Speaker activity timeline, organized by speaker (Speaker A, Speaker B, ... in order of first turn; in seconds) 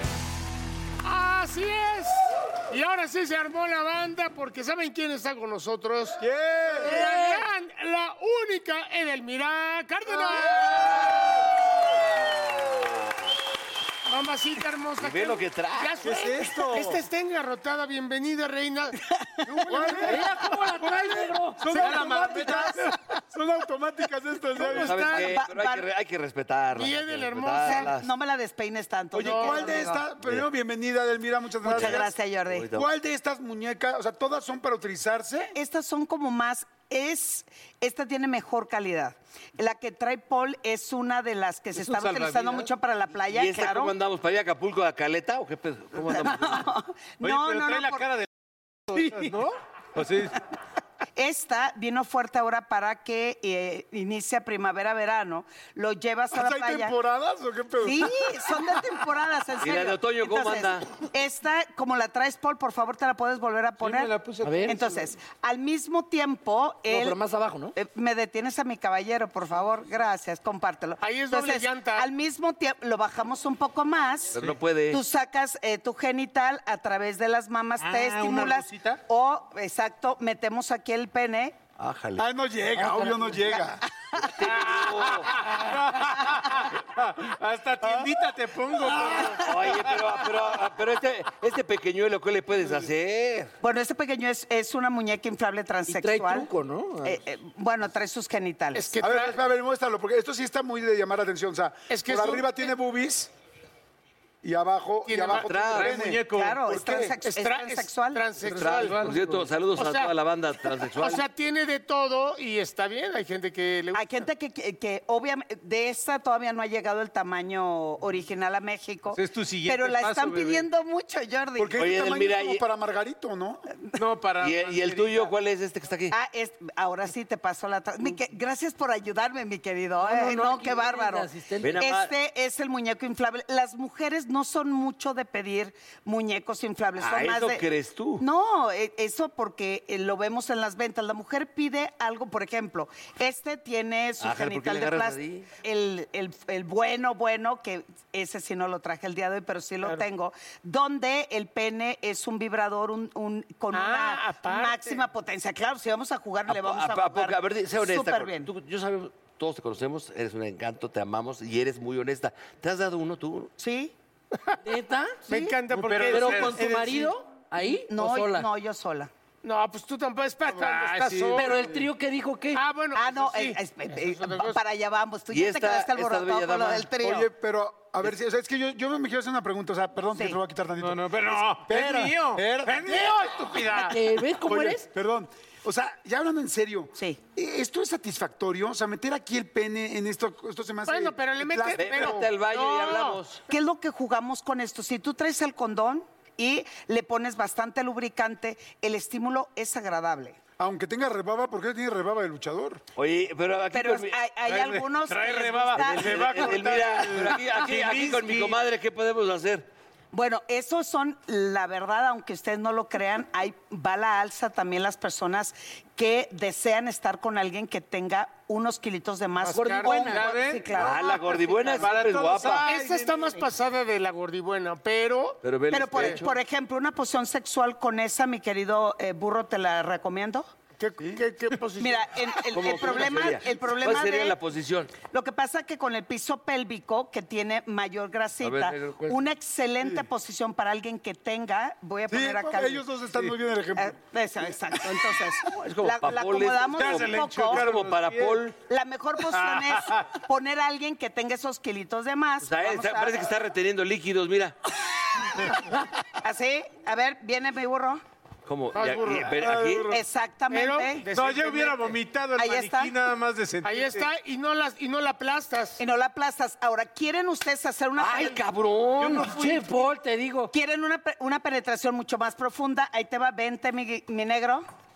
Speaker A: 1.0-6.2, 6.8-11.0, 14.1-19.0, 19.7-20.0, 24.6-25.2, 26.7-27.9, 29.2-30.0, 71.0-72.1, 98.8-99.4, 101.9-102.5, 105.1-105.5, 107.2-109.1, 109.8-110.1, 110.8-114.1, 153.7-155.1, 165.3-167.1, 169.4-171.8, 172.5-174.6, 190.9-193.2, 219.4-220.4, 222.6-225.4, 225.9-226.2, 230.8-233.0, 258.7-259.4, 260.5-261.9, 263.6-265.8
Speaker B: 6.2-7.0, 10.4-11.2, 16.0-17.0, 19.4-25.3, 29.1-32.1, 32.7-35.5, 56.3-58.5, 82.2-83.8, 87.8-88.1, 89.0-89.2, 99.0-103.3, 104.4-107.2, 121.6-123.7, 177.0-183.3, 184.4-192.2, 200.6-202.8, 242.1-244.0, 259.4-260.0
Speaker C: 6.8-7.5, 19.9-21.9, 64.4-64.8, 66.9-67.7, 82.8-83.5, 95.9-97.2, 130.0-131.8, 164.6-165.3, 166.1-168.5, 171.3-172.6, 183.7-184.9, 219.5-220.4, 269.2-270.5
Speaker D: 10.9-11.4, 12.0-13.2, 15.0-16.2, 24.7-28.1, 31.7-32.9, 43.2-46.7, 59.6-60.9, 74.3-75.0, 81.8-82.2, 84.2-85.4, 89.3-93.5, 105.3-106.0, 108.5-111.3, 121.8-122.6, 124.4-126.2, 131.6-132.1, 137.0-138.2, 144.2-145.5, 156.5-163.5, 175.3-176.9, 191.7-193.4, 203.0-204.2, 205.8-209.7, 220.7-222.7, 225.4-226.4, 232.5-234.9, 238.4-239.2, 245.6-248.6, 252.4-254.6, 258.5-260.0, 268.0-269.3
Speaker E: 21.7-22.9, 41.8-42.7, 47.2-48.3, 48.9-50.4, 63.8-65.0, 77.8-79.0, 84.6-90.2, 105.7-107.1, 108.5-109.5, 119.1-120.7, 124.0-125.3, 165.7-166.9, 170.5-171.6, 180.8-184.0, 204.5-208.6, 220.1-220.9, 221.8-223.4, 246.6-248.4, 249.3-250.0, 261.1-264.1, 269.0-269.8
Speaker F: 25.1-25.9, 27.6-30.0, 31.6-32.7, 35.5-43.9, 46.0-48.1, 51.2-57.0, 57.8-64.1, 64.7-67.2, 67.8-74.4, 74.9-81.6, 93.6-96.5, 97.0-99.0, 106.2-108.2, 113.9-121.8, 126.1-137.7, 138.2-158.5, 163.6-163.9, 165.3-165.5, 167.9-169.1, 173.0-177.3, 193.5-200.4, 203.7-206.5, 210.1-221.9, 225.7-230.5, 231.8-234.4, 235.0-242.8, 243.8-247.7, 248.6-253.2, 256.2-258.0, 259.9-261.1, 262.4-262.9, 265.8-268.4, 270.5-274.6